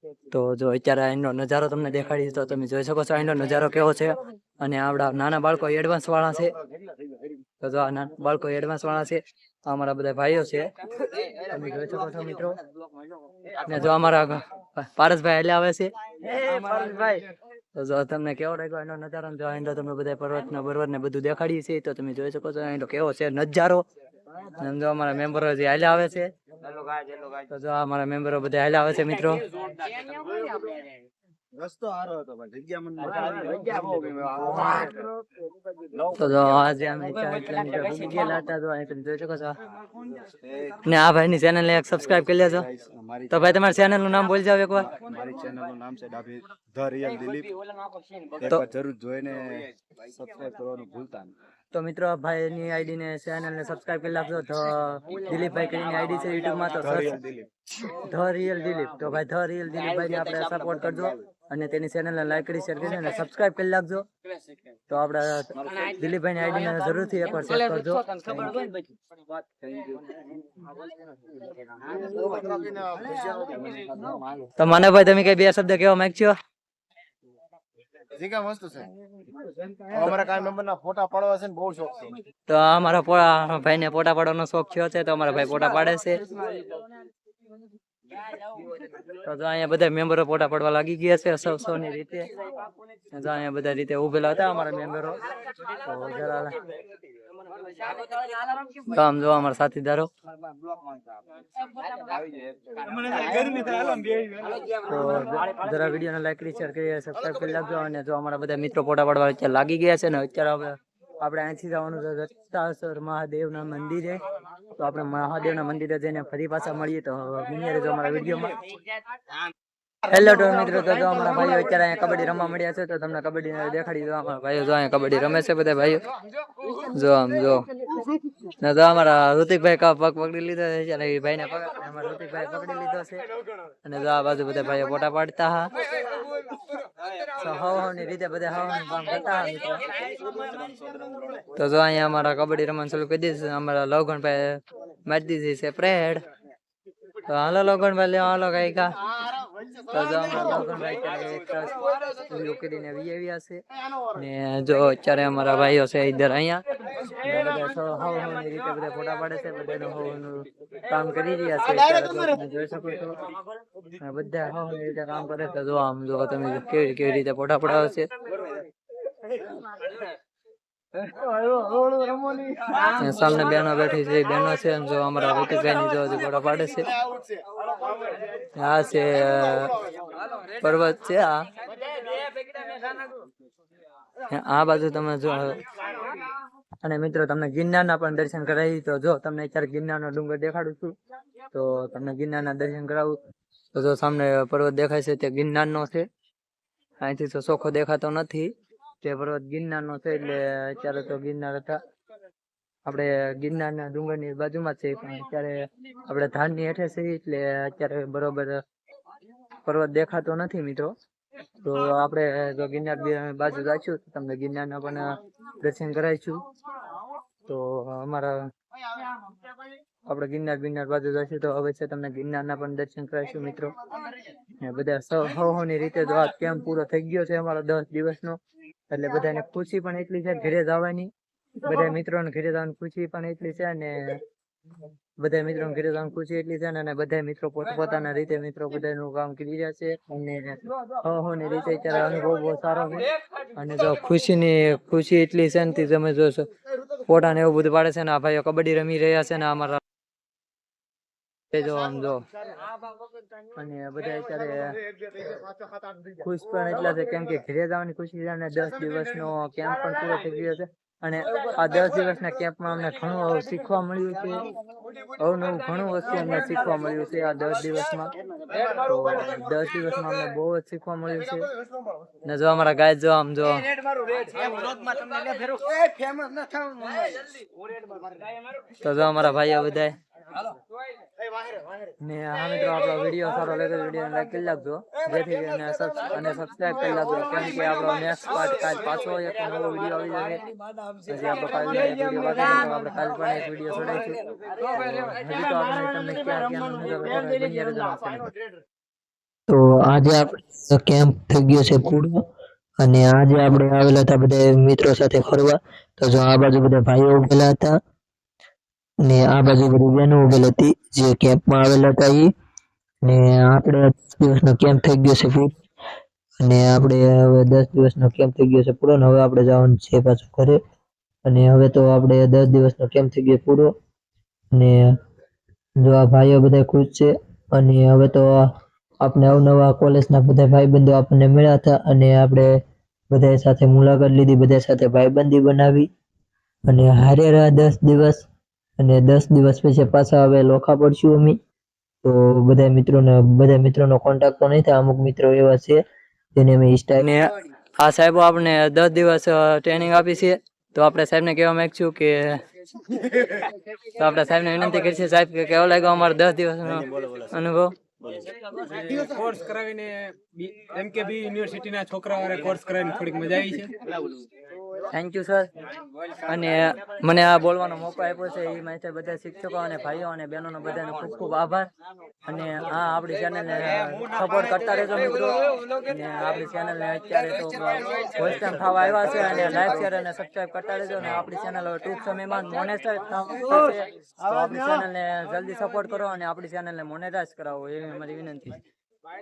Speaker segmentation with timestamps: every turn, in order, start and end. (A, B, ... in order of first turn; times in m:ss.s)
0:00.3-0:06.6 A
0:07.6-0:10.7 A
0:11.5-0:12.6 A
0:13.6-0:17.2 A
0:17.8-0:23.8 A
0:24.6-0:26.3 A
0:27.5-0:29.4 A
0:31.6-0:35.1 B
0:36.2-0:39.6 A
0:40.5-0:40.7 B
0:40.8-0:42.7 A
0:42.7-0:43.3 B
0:43.3-0:44.9 A
0:44.9-0:47.5 B
0:48.4-0:51.3 B
0:51.7-0:57.2 A
0:56.8-0:57.5 B
0:57.9-1:04.0 A
1:04.9-1:08.0 A
1:12.0-1:14.1 B
1:14.6-1:16.4 A
1:18.2-1:18.9 B
1:19.9-1:22.2 B
1:22.5-1:26.2 A
1:29.1-1:32.3 A
1:33.1-1:35.2 A
1:35.8-1:36.6 A
1:38.8-1:40.1 A
1:43.0-1:44.3 C
1:44.8-1:54.2 A
1:54.8-1:58.6 A
2:00.1-2:06.0 A
2:06.9-2:07.7 A
2:08.6-2:13.2 A
2:13.8-2:15.7 A
2:17.4-2:19.9 A
2:21.6-2:26.2 A
2:27.3-2:29.0 A
2:29.9-2:33.6 A
2:34.1-2:36.6 A
2:37.2-2:43.2 A
2:44.0-2:48.1 A
2:51.1-2:52.7 B
2:52.9-2:56.9 A
2:58.6-2:59.8 A
3:00.6-3:01.5 A
3:04.3-3:05.6 A
3:06.8-3:10.9 A
3:11.5-3:13.2 A
3:13.7-3:16.0 A
3:17.0-3:21.8 A
3:22.9-3:28.6 A
3:29.7-3:30.9 A
3:31.6-3:36.4 A
3:37.5-3:38.4 A
3:40.1-3:43.7 A
3:44.6-3:48.4 A
3:48.9-3:51.1 A
3:51.6-3:54.2 A
3:55.2-4:06.5 A
4:07.1-4:09.8 A
4:11.5-4:12.2 A
4:13.6-4:14.8 A
4:16.2-4:24.5 A
4:25.2-4:28.1 A
4:28.7-4:31.5 A
4:32.2-4:33.7 A
4:38.8-4:40.0 A
4:42.0-4:50.4 A
4:51.1-4:54.2 A
4:54.7-4:58.3 A
4:59.5-5:02.2 D
5:02.8-5:07.8 D
5:09.0-5:12.3 D
5:13.0-5:15.6 D
5:16.4-5:20.6 D
5:21.2-5:23.7 D
5:24.5-5:24.9 D
5:25.8-5:28.4 D
5:29.0-5:32.5 D
5:33.1-5:35.9 D
5:36.7-5:38.2 D
5:38.8-5:41.4 D
5:42.0-5:45.8 D
5:46.4-5:47.0 D
5:47.0-5:52.4 A
5:53.9-5:57.7 A
5:56.7-5:57.3 B
5:58.7-6:03.8 C
6:04.9-6:05.5 A
6:06.3-6:11.7 A
6:12.3-6:28.6 A